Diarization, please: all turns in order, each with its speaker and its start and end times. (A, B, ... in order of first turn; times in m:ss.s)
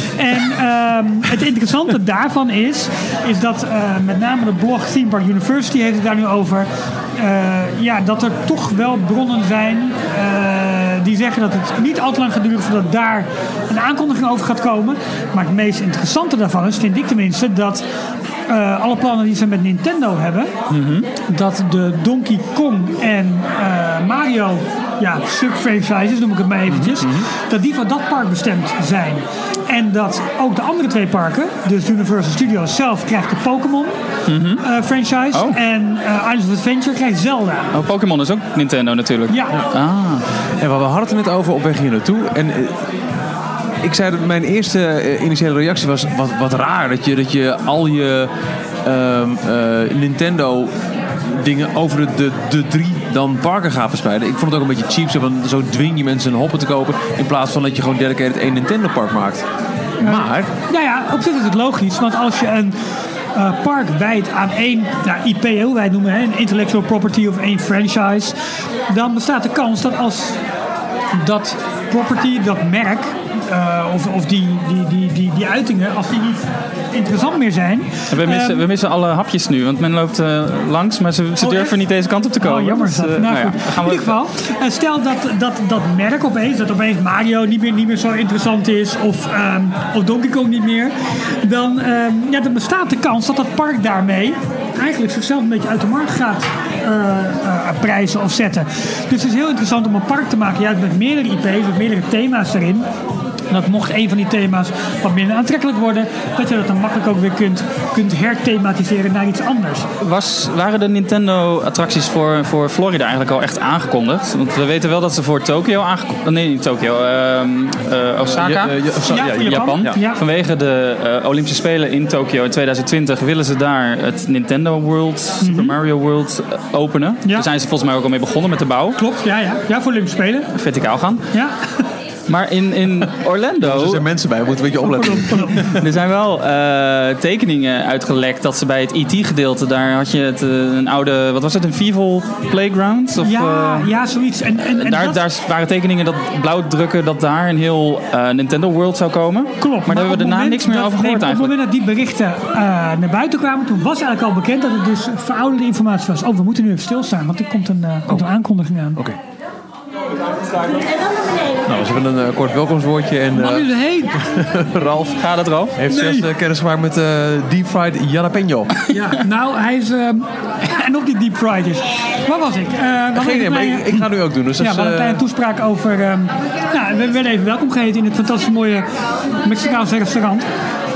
0:00.2-0:17.9 A
0:18.5-0:20.5 A
0:20.7-0:21.0 B
0:21.3-0:34.0 A
0:26.7-0:27.3 B
0:34.3-0:34.6 C
0:34.6-0:37.7 A
0:37.7-0:40.2 C
0:39.3-0:39.6 A
0:40.6-0:42.9 B
0:43.8-0:48.3 B
0:48.8-0:59.5 B
1:00.0-1:00.5 B
1:00.0-1:02.8 A
1:03.4-1:08.4 A
1:08.9-1:10.4 A
1:11.1-1:18.7 A
1:18.1-1:24.2 C
1:21.4-1:21.7 A
1:22.4-1:42.9 A
1:43.5-1:49.9 A
1:50.0-1:58.8 C
1:58.3-2:00.0 B
1:59.1-2:00.2 A
1:59.4-2:09.0 C
2:05.4-2:05.8 A
2:09.0-2:10.5 A
2:10.5-2:11.3 C
2:11.3-2:11.9 A
2:12.3-2:14.0 C
2:13.6-2:15.8 B
2:14.8-2:15.7 A
2:15.7-2:23.9 C
2:23.2-2:25.2 A
2:24.8-2:31.5 C
2:29.6-2:39.0 A
2:41.6-2:48.7 B
2:43.3-2:44.2 A
2:45.2-2:45.8 C
2:45.9-2:46.3 A
2:48.9-2:54.1 A
2:53.1-2:55.2 B
2:54.6-2:58.9 A
2:59.4-3:00.5 A